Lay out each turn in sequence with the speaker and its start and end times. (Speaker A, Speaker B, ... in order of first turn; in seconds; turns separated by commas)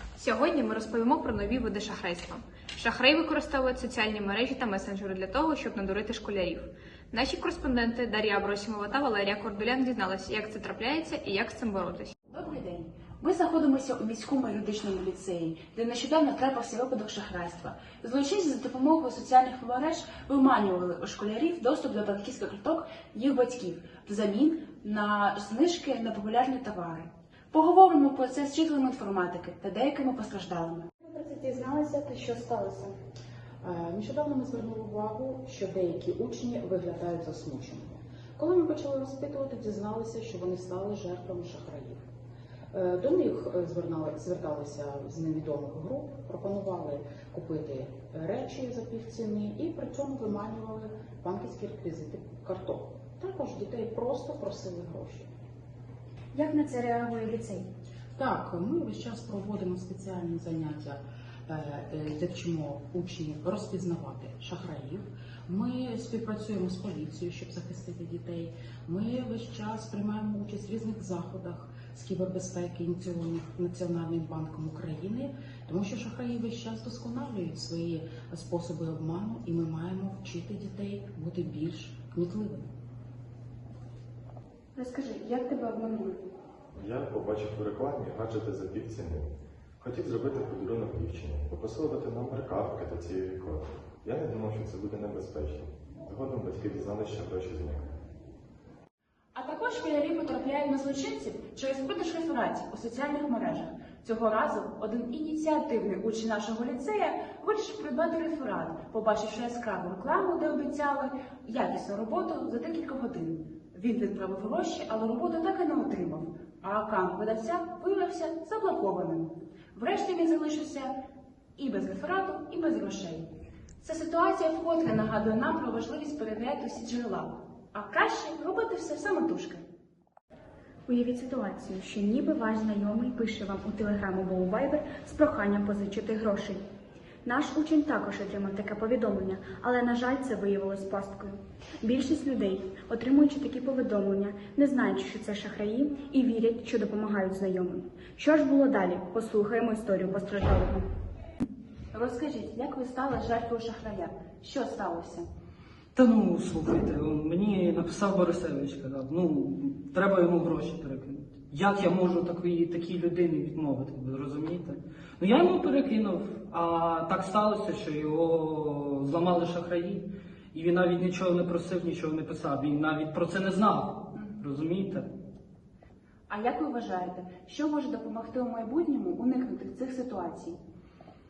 Speaker A: 0.2-12.1, Speaker B: 12.3-30.9, Speaker C: 31.0-32.9, Speaker D: 33.6-42.0, Speaker D: 42.7-55.3, Speaker C: 56.3-57.7, Speaker D: 58.2-82.7, Speaker C: 84.7-86.2, Speaker E: 86.7-97.9, Speaker B: 99.3-120.9, Speaker B: 121.6-123.3, Speaker B: 123.8-129.6, Speaker C: 130.9-136.6, Speaker C: 137.2-150.9, Speaker B: 151.9-155.2, Speaker F: 155.9-175.1, Speaker B: 176.3-180.6